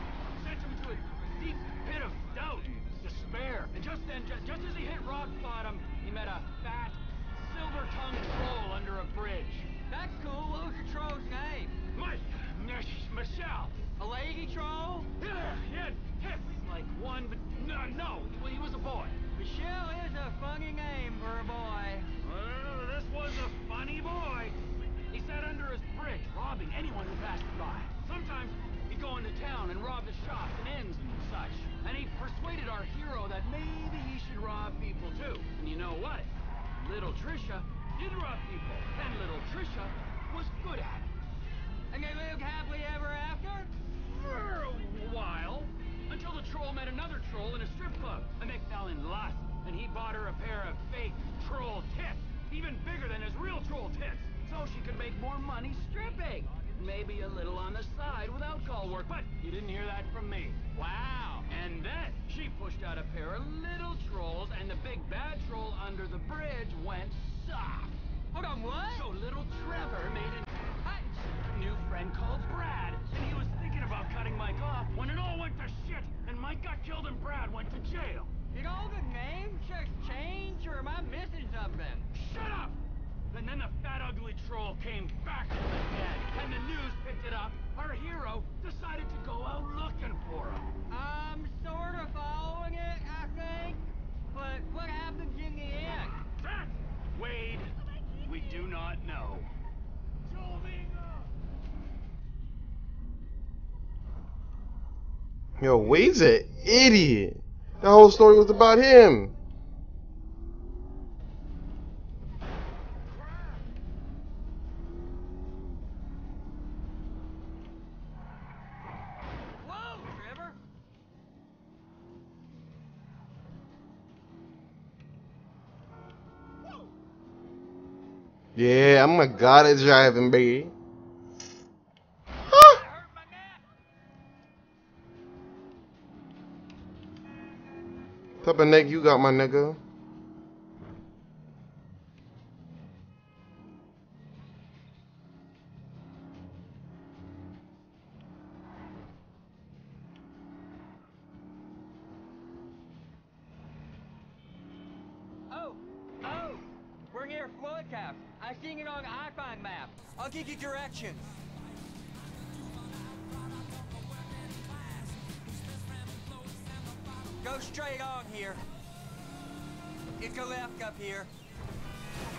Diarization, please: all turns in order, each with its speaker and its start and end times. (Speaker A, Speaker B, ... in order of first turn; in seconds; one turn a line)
Speaker A: 0.3-9.7
Speaker B: 9.9-11.8
Speaker A: 11.9-13.8
Speaker B: 14.0-15.1
Speaker A: 15.2-19.2
Speaker B: 19.4-22.1
Speaker A: 22.2-24.6
Speaker A: 25.1-36.3
Speaker A: 36.8-41.1
Speaker B: 41.9-43.7
Speaker A: 44.0-60.6
Speaker B: 60.7-61.5
Speaker A: 61.5-68.0
Speaker B: 68.3-69.1
Speaker A: 68.9-70.5
Speaker B: 70.8-71.2
Speaker A: 71.3-78.3
Speaker B: 78.5-82.1
Speaker A: 82.1-82.8
Speaker A: 83.3-90.7
Speaker B: 90.9-93.8
Speaker B: 94.3-96.2
Speaker A: 96.4-99.5
Speaker A: 100.3-101.2
Speaker C: 105.6-109.3
Speaker B: 119.6-120.6
Speaker C: 128.6-130.7
Speaker C: 132.5-132.8
Speaker B: 132.7-133.6
Speaker C: 138.4-139.8
Speaker B: 155.5-161.3
Speaker B: 167.4-168.6
Speaker B: 170.2-171.3